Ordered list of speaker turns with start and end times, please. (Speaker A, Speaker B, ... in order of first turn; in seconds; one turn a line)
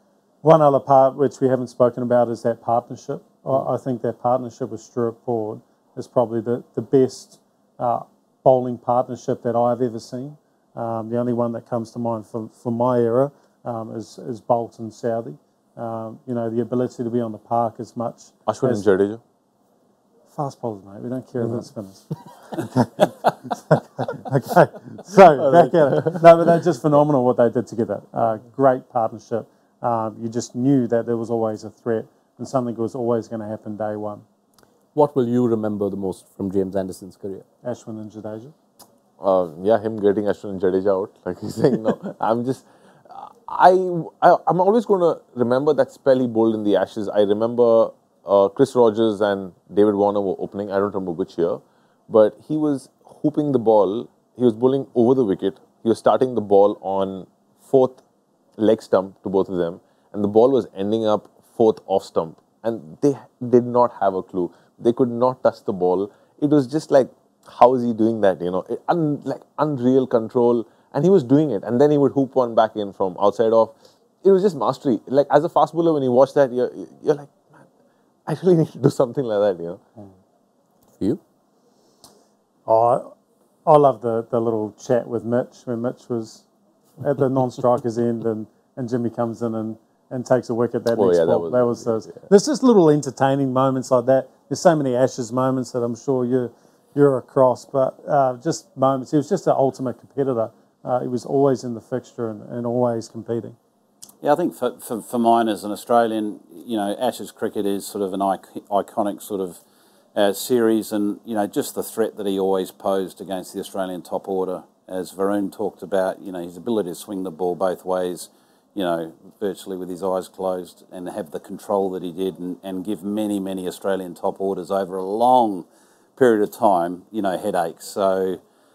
Speaker A: 0.4-18.8
Speaker B: 18.5-19.2
Speaker A: 20.3-34.2
Speaker C: 34.9-37.5
Speaker A: 37.6-38.5
Speaker B: 39.2-58.0
Speaker B: 58.6-77.5
Speaker B: 78.3-79.8
Speaker A: 82.7-83.1
Speaker A: 83.7-86.5
Speaker A: 87.0-103.6
Speaker B: 91.0-92.2
Speaker D: 104.2-109.6
Speaker D: 110.2-125.7
Speaker D: 126.2-128.4